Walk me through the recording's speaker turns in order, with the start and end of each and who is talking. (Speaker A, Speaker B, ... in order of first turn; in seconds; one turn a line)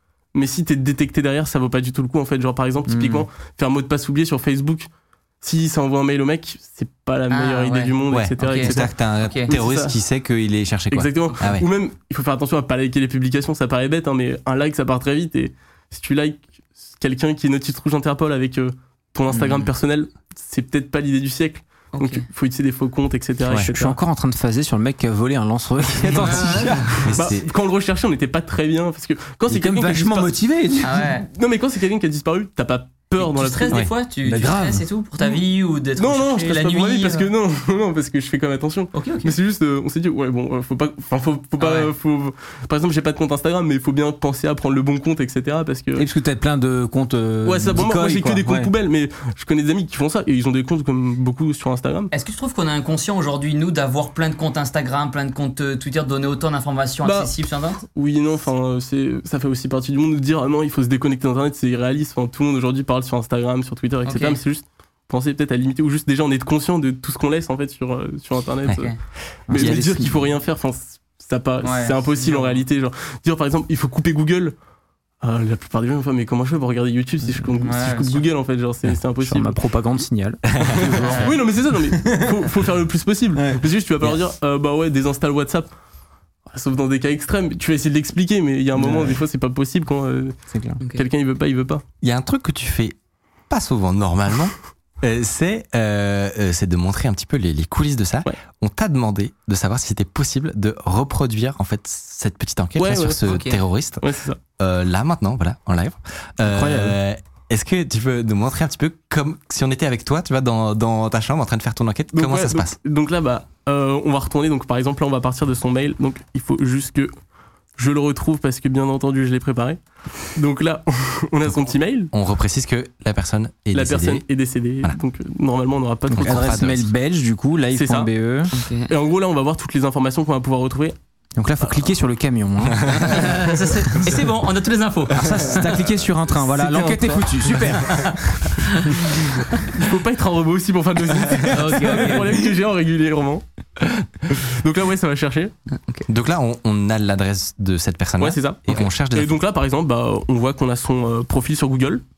Speaker A: 0.3-4.9
Speaker B: 2.9-3.2
Speaker A: 5.4-8.9
Speaker C: 7.3-9.5
Speaker D: 8.1-11.7
Speaker A: 9.5-9.9
Speaker A: 10.9-24.0
Speaker C: 19.3-19.7
Speaker C: 21.9-22.2
Speaker B: 23.6-27.1
Speaker C: 26.2-26.9
Speaker D: 27.0-27.5
Speaker A: 27.1-30.3
Speaker B: 29.5-31.1
Speaker C: 30.8-31.3
Speaker A: 31.3-33.8
Speaker C: 33.2-37.3
Speaker B: 34.2-34.9
Speaker A: 36.0-46.0
Speaker C: 38.9-39.3
Speaker C: 41.6-41.9
Speaker B: 46.0-48.7
Speaker A: 47.4-52.1
Speaker C: 52.1-57.8
Speaker A: 57.0-57.3
Speaker A: 57.9-68.9
Speaker C: 64.0-64.4
Speaker B: 69.5-70.2
Speaker A: 69.5-74.5
Speaker D: 69.5-69.9
Speaker C: 71.6-72.6
Speaker A: 75.2-79.6
Speaker C: 77.6-78.2
Speaker B: 79.2-81.4
Speaker D: 80.6-80.9
Speaker A: 80.8-85.7
Speaker C: 81.0-81.3
Speaker B: 81.9-82.3
Speaker B: 83.3-83.6
Speaker A: 86.5-91.8
Speaker B: 88.8-89.2
Speaker B: 90.5-90.8
Speaker C: 90.8-91.0
Speaker D: 92.0-93.0
Speaker D: 93.5-104.0
Speaker A: 102.8-103.3
Speaker C: 103.3-103.6
Speaker A: 104.0-104.4
Speaker D: 104.6-112.8
Speaker B: 106.4-107.0
Speaker A: 112.1-117.1
Speaker A: 117.8-119.8
Speaker A: 120.3-122.1
Speaker D: 122.1-124.2
Speaker A: 123.7-126.6
Speaker B: 126.1-128.5
Speaker D: 126.2-126.9
Speaker A: 127.7-128.1
Speaker C: 128.5-128.9
Speaker A: 128.9-130.9
Speaker B: 131.4-133.4
Speaker C: 133.0-135.8
Speaker B: 135.1-138.5
Speaker A: 136.7-137.0
Speaker C: 137.9-138.9
Speaker A: 139.7-143.4
Speaker C: 141.5-142.4
Speaker A: 144.3-145.5
Speaker C: 145.7-146.1
Speaker D: 146.1-149.4
Speaker A: 148.2-152.0